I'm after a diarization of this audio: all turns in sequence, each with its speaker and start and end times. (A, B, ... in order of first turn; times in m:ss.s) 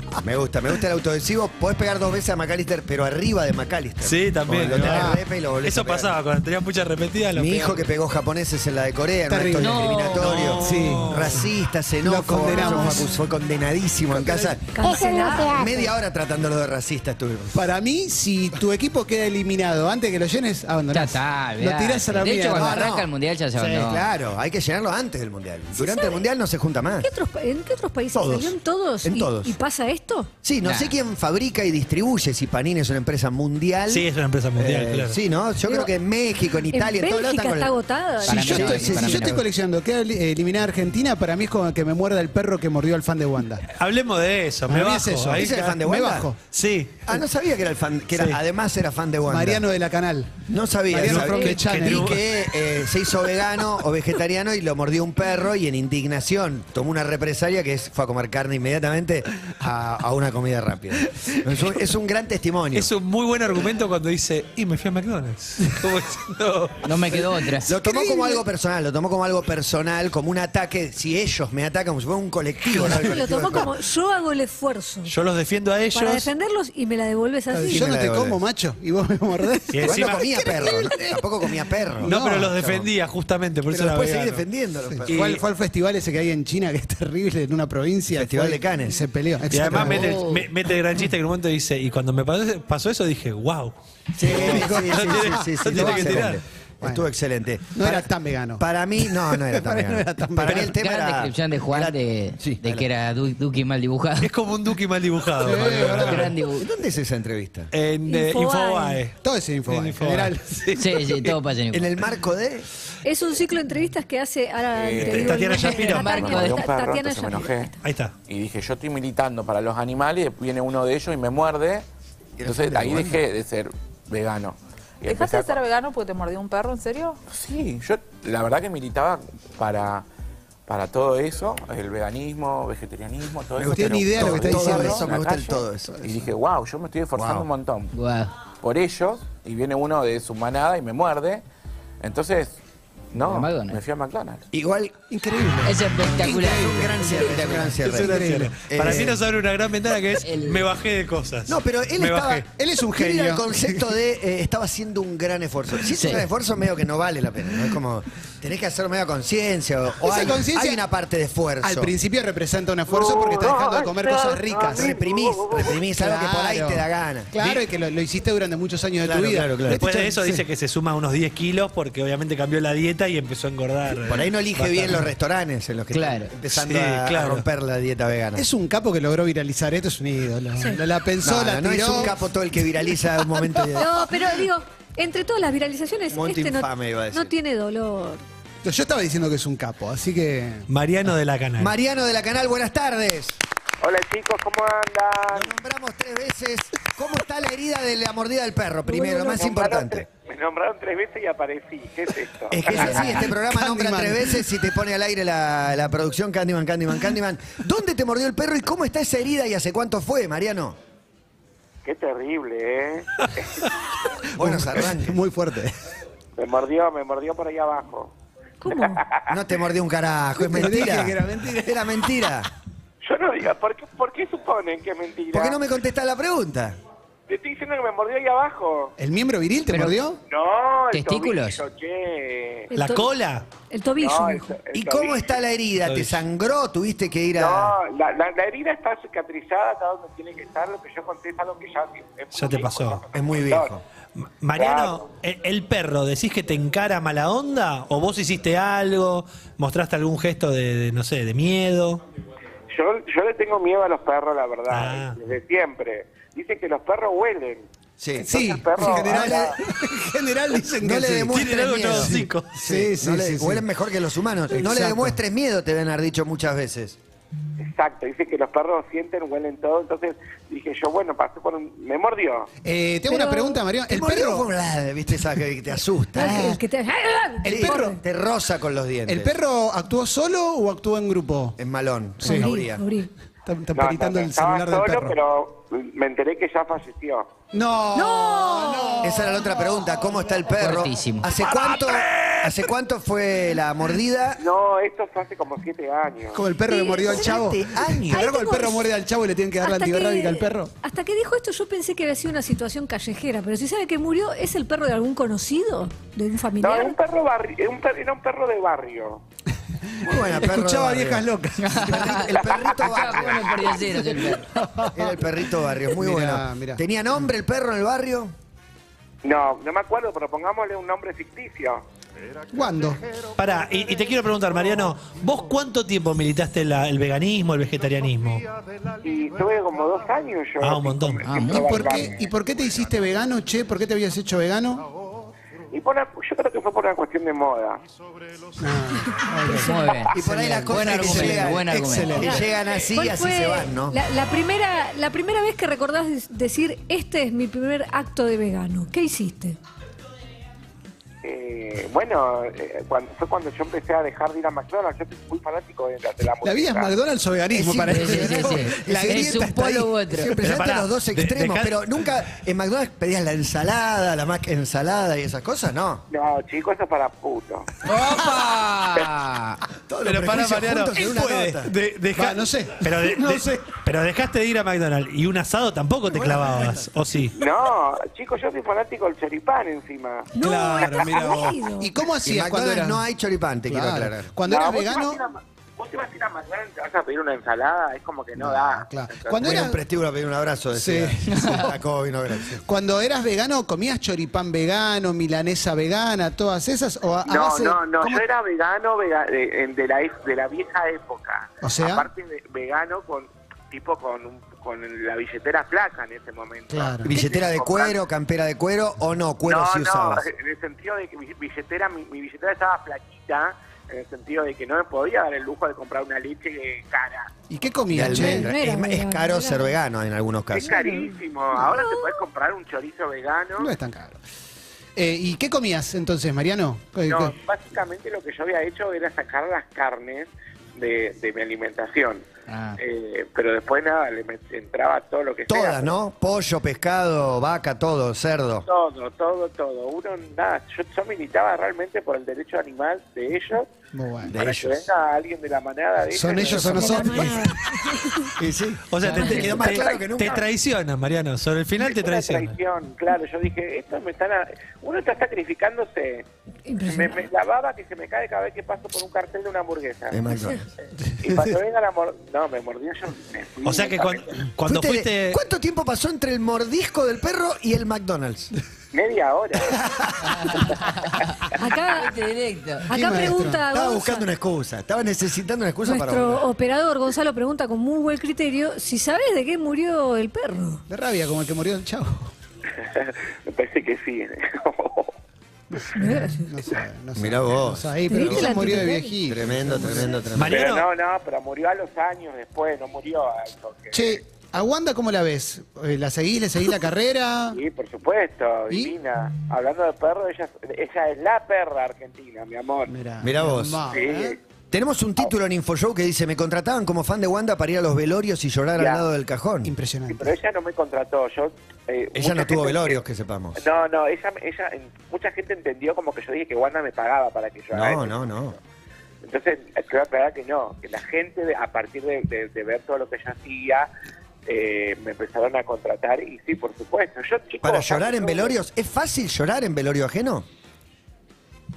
0:00.2-0:06.2 A
0:04.0-0:07.9 B
0:04.7-0:05.2 C
0:07.3-0:17.7 A
0:09.3-0:10.0 C
0:09.6-0:10.5 D
0:10.1-0:11.4 B
0:10.6-0:11.3 C
0:12.0-0:13.1 C
0:12.5-0:13.2 E
0:14.2-0:14.6 C
0:14.7-0:15.9 E
0:14.8-0:15.7 F
0:17.5-0:22.8 C
0:20.9-0:24.1 D
0:22.5-0:23.1 A
0:23.6-0:23.9 B
0:23.8-0:27.1 A
0:25.8-0:26.2 E
0:27.0-0:30.3 E
0:28.1-0:29.6 A
0:30.4-0:39.4 A
0:30.6-0:30.9 D
0:33.9-0:35.2 B
0:35.6-0:35.9 E
0:36.7-0:38.9 E
0:38.2-0:39.4 D
0:38.3-0:43.7 C
0:43.7-0:45.6 B
0:44.7-0:46.4 C
0:45.3-0:46.3 A
0:46.5-0:47.1 B
0:47.1-0:49.6 A
0:48.1-0:48.4 B
0:49.3-0:50.4 C
0:50.5-1:02.9 A
0:50.9-0:52.2 C
0:50.9-0:52.2 B
1:02.7-1:07.2 B
1:06.8-1:07.7 D
1:07.7-1:13.8 A
1:12.8-1:15.1 E
1:12.8-1:13.0 C
1:15.1-1:16.3 B
1:15.9-1:17.9 E
1:17.5-1:21.2 C
1:17.7-1:18.4 A
1:19.7-1:20.3 B
1:19.8-1:22.9 A
1:22.0-1:22.6 C
1:22.0-1:24.4 B
1:23.7-1:25.4 A
1:24.9-1:30.2 C
1:25.1-1:25.4 B
1:28.1-1:29.0 A
1:29.5-1:36.4 B
1:29.8-1:30.5 D
1:34.2-1:42.9 A
1:34.2-1:37.1 C
1:37.8-1:40.7 C
1:40.5-1:44.3 D
1:44.2-1:46.3 B
1:45.4-1:46.3 C
1:45.9-1:46.7 D
1:46.5-1:47.7 A
1:47.7-1:49.1 B
1:48.1-1:49.0 E
1:49.2-1:50.7 C
1:49.7-1:51.3 B
1:50.8-1:52.0 D
1:51.7-1:52.7 A
1:53.0-1:57.7 E
1:54.8-1:57.7 G
1:55.0-1:56.2 B
1:55.8-1:56.6 D
1:57.8-1:58.1 B
1:58.2-2:01.9 G
2:02.4-2:03.2 A
2:02.4-2:05.7 G
2:05.7-2:07.1 F
2:07.3-2:10.0 G
2:10.7-2:17.9 G
2:13.6-2:16.0 A
2:13.6-2:15.2 C
2:17.1-2:17.5 A
2:17.9-2:18.3 D
2:18.6-2:21.4 G
2:22.0-2:22.6 G
2:23.1-2:24.5 G
2:23.2-2:23.8 D
2:24.5-2:25.0 A
2:25.1-2:29.1 C
2:25.6-2:27.5 D
2:26.2-2:29.2 A
2:27.8-2:32.4 B
2:30.2-2:30.7 D
2:31.5-2:41.9 A
2:32.5-2:33.9 C
2:35.9-2:36.3 D
2:40.0-2:40.8 C
2:41.6-2:44.9 C
2:42.9-2:45.8 H
2:44.7-2:47.3 A
2:45.8-2:50.4 C
2:47.4-2:47.6 B
2:49.0-2:49.9 A
2:49.7-2:55.1 B
2:54.0-2:58.5 A
2:55.9-2:56.3 D
2:56.5-2:57.5 B
2:58.4-3:02.2 C
3:01.2-3:04.1 A
3:03.8-3:08.2 E
3:06.1-3:07.3 A
3:08.6-3:10.7 C
3:10.7-3:11.7 B
3:11.6-3:13.4 A
3:13.8-3:15.5 H
3:15.3-3:20.1 A
3:19.0-3:19.3 E
3:19.2-3:23.2 H
3:22.5-3:30.8 A
3:22.7-3:24.4 C
3:22.8-3:23.1 D
3:31.8-3:33.7 H
3:34.4-3:35.8 C
3:34.4-3:35.2 A
3:36.4-3:38.1 H
3:38.6-3:39.0 E
3:38.7-3:39.4 H
3:39.3-3:42.5 A
3:40.4-3:42.2 C
3:43.0-3:45.6 H
3:45.3-3:46.8 A
3:47.3-3:49.0 H
3:49.0-3:50.2 C
3:49.7-3:50.0 D
3:50.3-3:52.7 H
3:50.9-3:51.6 D
3:52.7-3:53.1 E
3:52.8-3:53.5 B
3:53.7-3:54.6 E
3:54.0-3:55.4 H
3:54.7-3:57.8 A
3:55.8-3:56.2 B
3:57.4-4:03.7 H
4:02.3-4:03.0 B
4:03.1-4:03.8 A
4:04.2-4:12.0 B
4:04.6-4:05.0 H
4:12.7-4:17.7 H
4:14.7-4:15.2 B
4:18.0-4:19.6 A
4:18.2-4:19.6 H
4:18.2-4:23.6 C
4:20.7-4:27.0 A
4:21.3-4:22.6 B
4:24.5-4:25.2 C
4:27.6-4:32.5 H
4:32.6-4:34.5 C
4:33.1-4:33.6 E
4:33.9-4:36.6 A
4:36.1-4:38.0 E
4:36.2-4:36.6 C
4:37.4-4:38.0 C
4:37.4-4:39.4 A
4:39.1-4:41.6 C
4:41.6-4:42.8 A
4:42.2-4:42.5 C
4:42.2-4:43.1 E
4:43.4-4:45.2 C
4:43.7-4:47.3 H
4:47.5-4:49.7 C
4:47.9-4:49.3 E
4:49.0-4:54.4 A
4:50.6-4:51.3 D
4:54.4-4:56.4 H
4:56.3-5:00.7 C
4:56.6-4:57.5 E
4:57.1-4:58.3 A
4:58.1-4:58.9 E
4:59.6-5:07.0 E
5:06.6-5:09.2 H
5:09.9-5:12.2 C
5:10.0-5:13.8 A
5:11.6-5:14.5 D
5:12.3-5:13.9 H
5:14.0-5:15.3 C
5:14.9-5:18.3 A
5:15.9-5:16.8 C
5:19.2-5:21.8 H
5:22.5-5:23.0 C
5:23.4-5:28.5 B
5:29.0-5:32.3 H
5:30.6-5:31.2 B
5:31.2-5:31.8 D
5:31.4-5:34.9 C
5:35.7-5:37.8 H
5:38.6-5:39.7 C
5:39.1-5:40.0 E
5:39.6-5:42.2 D
5:40.1-5:44.0 A
5:40.4-5:42.4 C
5:42.2-5:49.6 E
5:51.2-5:57.0 H
5:56.4-5:59.8 C
5:57.5-6:06.0 A
5:57.9-6:00.4 D
6:00.4-6:01.9 B
6:06.1-6:07.7 H
6:07.8-6:09.6 D
6:09.9-6:11.7 A
6:10.0-6:17.4 B
6:12.1-6:13.6 C
6:16.1-6:16.9 C
6:17.3-6:21.0 H
6:20.4-6:21.9 E
6:20.4-6:21.4 B
6:20.4-6:23.0 C
6:22.2-6:24.3 A
6:23.7-6:25.2 C
6:24.5-6:29.7 H
6:28.4-6:29.8 C
6:29.4-6:32.6 A
6:30.7-6:31.7 C
6:31.3-6:31.6 D
6:32.6-6:38.2 C
6:37.3-6:48.0 H
6:41.6-6:42.1 C
6:46.7-6:47.1 C
6:47.0-6:50.2 A
6:49.4-6:57.3 H
6:57.5-6:58.5 C
6:57.9-7:00.8 A
6:58.0-6:59.8 E
7:00.5-7:03.7 H
7:00.6-7:02.2 E
7:03.6-7:04.2 C
7:05.0-7:07.4 C
7:07.1-7:12.2 H
7:12.5-7:12.8 D
7:12.8-7:16.0 H
7:15.5-7:18.7 A
7:18.6-7:23.7 H
7:23.9-7:24.4 C
7:24.3-7:24.9 A
7:24.3-7:26.9 H
7:26.1-7:27.5 C
7:26.4-7:27.4 A
7:26.6-7:28.3 E
7:28.4-7:30.4 A
7:28.9-7:32.6 B
7:29.0-7:29.6 D
7:29.5-7:30.4 H
7:31.8-7:36.3 H
7:36.7-7:37.3 E
7:36.8-7:40.2 H
7:40.1-7:40.7 A
7:41.2-7:44.3 H
7:43.6-7:45.4 B
7:44.7-7:48.5 A
7:48.9-7:49.8 H
7:49.7-7:50.4 A
7:50.2-7:51.1 D
7:51.6-7:52.2 E
7:51.8-7:52.9 D
7:52.9-7:54.3 E
7:52.9-7:53.6 C
7:53.7-7:56.5 A
7:55.8-8:00.8 E
8:00.9-8:02.3 C
8:02.8-8:05.1 H
8:05.7-8:10.2 C
8:06.0-8:06.5 E
8:07.2-8:10.7 A
8:08.1-8:09.2 E
8:10.4-8:10.9 B
8:10.4-8:14.2 H
8:13.9-8:17.6 C
8:17.5-8:22.9 H
8:18.7-8:19.0 C
8:22.9-8:24.4 C
8:23.2-8:23.8 A
8:23.9-8:24.4 H
8:24.7-8:29.7 A
8:28.8-8:29.0 H
8:29.6-8:30.4 C
8:30.1-8:33.0 H
8:32.1-8:33.6 A
8:33.6-8:38.2 H
8:37.7-8:38.6 A
8:39.2-8:43.9 H
8:44.5-8:48.6 H
8:47.6-8:50.5 A